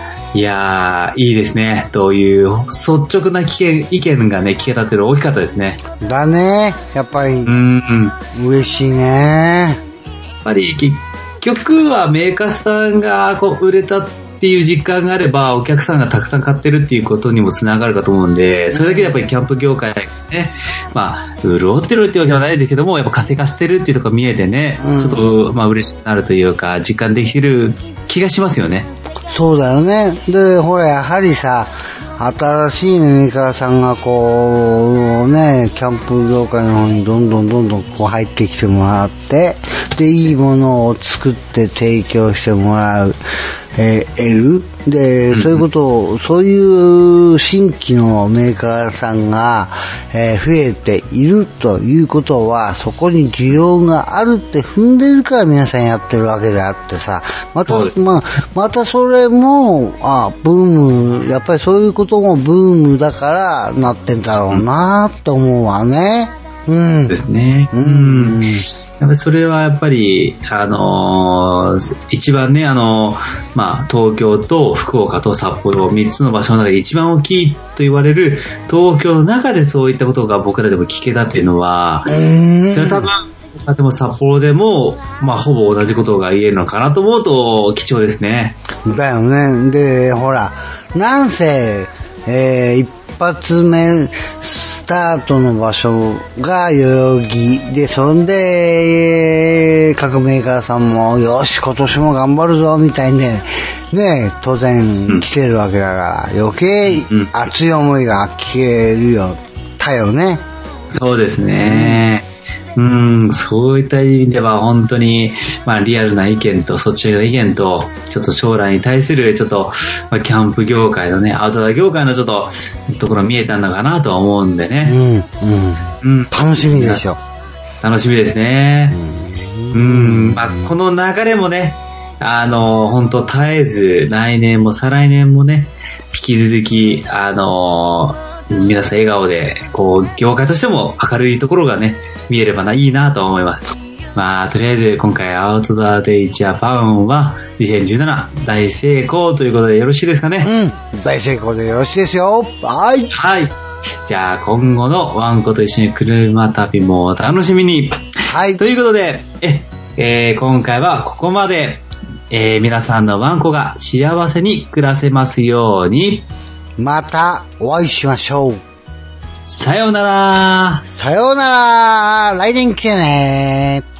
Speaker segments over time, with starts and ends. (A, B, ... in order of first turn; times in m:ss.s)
0:00.3-0:05.8 A
0:06.0-0:07.5 B
0:07.4-0:08.2 A
0:08.3-0:09.8 B
0:10.4-0:28.9 A
0:18.7-0:19.2 B
0:24.8-0:25.3 B
0:29.3-0:43.2 B
0:43.7-1:08.6 B
0:45.3-0:45.6 A
0:57.6-0:57.9 A
1:07.1-1:08.4 A
1:09.0-1:28.6 A
1:22.0-1:23.1 B
1:28.8-1:50.4 B
1:46.9-1:47.3 A
1:50.9-1:52.2 A
1:51.7-1:52.0 B
1:52.8-2:05.0 A
2:04.8-2:07.2 B
2:06.0-2:07.0 A
2:07.8-2:09.0 A
2:08.9-2:10.7 B
2:09.7-2:30.5 A
2:30.4-2:33.1 B
2:33.1-2:46.3 A
2:38.2-2:38.6 B
2:46.8-2:48.6 B
2:49.4-2:50.8 A
2:50.9-2:53.8 B